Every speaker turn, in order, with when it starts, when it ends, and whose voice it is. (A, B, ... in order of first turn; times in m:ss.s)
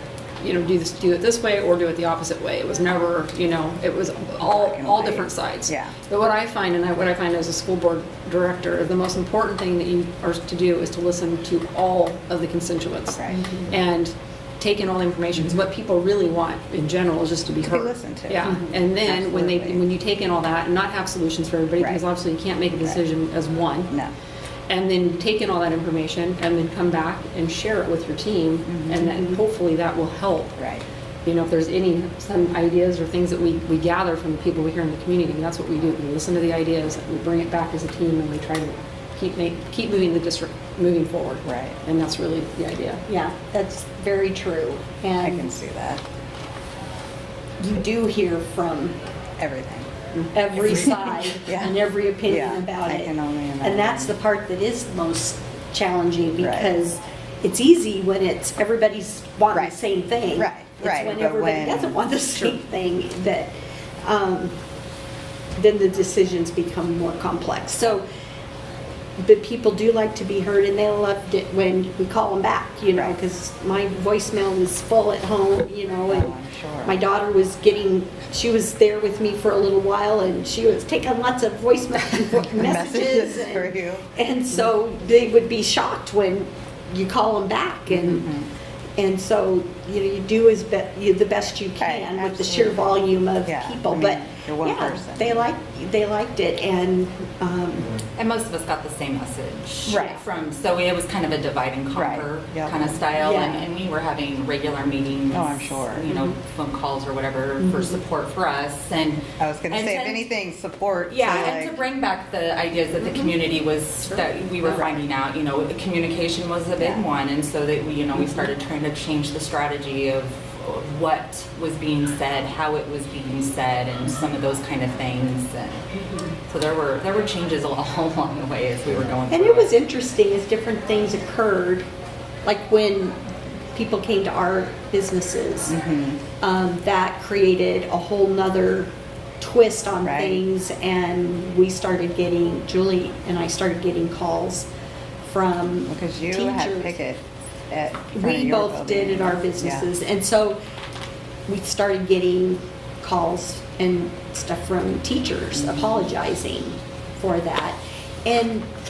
0:00.4-0:23.9 A
0:04.4-0:06.0 B
0:13.2-0:13.6 B
0:17.6-0:19.8 B
0:21.8-0:22.0 B
0:24.7-0:30.5 A
0:28.6-0:29.0 B
0:29.0-0:29.4 C
0:30.6-0:30.8 B
0:31.2-0:43.0 A
0:41.4-0:41.8 B
0:43.1-0:45.5 C
0:45.2-0:46.0 B
0:47.6-0:49.0 C
0:49.4-0:49.9 B
0:50.3-1:03.5 C
0:50.7-0:51.8 B
0:52.3-0:54.2 B
0:56.4-0:56.7 B
1:00.3-1:02.5 B
1:04.0-1:04.5 C
1:05.6-1:08.0 C
1:09.2-1:28.3 C
1:16.1-1:17.0 B
1:22.5-1:24.1 B
1:27.9-1:28.5 B
1:29.0-1:38.0 C
1:31.8-1:32.8 B
1:33.4-1:35.4 B
1:38.2-1:50.3 D
1:39.9-1:40.2 C
1:39.9-1:40.2 B
1:41.9-1:43.0 B
1:43.1-1:43.7 C
1:45.3-1:46.1 B
1:47.6-1:48.0 C
1:49.4-1:51.8 B
1:51.1-2:05.9 D
1:53.0-1:53.3 C
1:54.7-1:55.0 B
1:56.8-1:57.0 B
2:06.5-2:09.8 D
2:09.3-2:11.8 C
2:12.4-2:13.2 C
2:13.7-2:15.8 C
2:15.7-2:16.2 B
2:16.4-2:24.7 C
2:20.0-2:20.4 B
2:25.2-2:27.0 C
2:25.8-2:29.9 B
2:28.1-2:30.6 C
2:31.5-2:38.7 C
2:35.5-2:36.1 B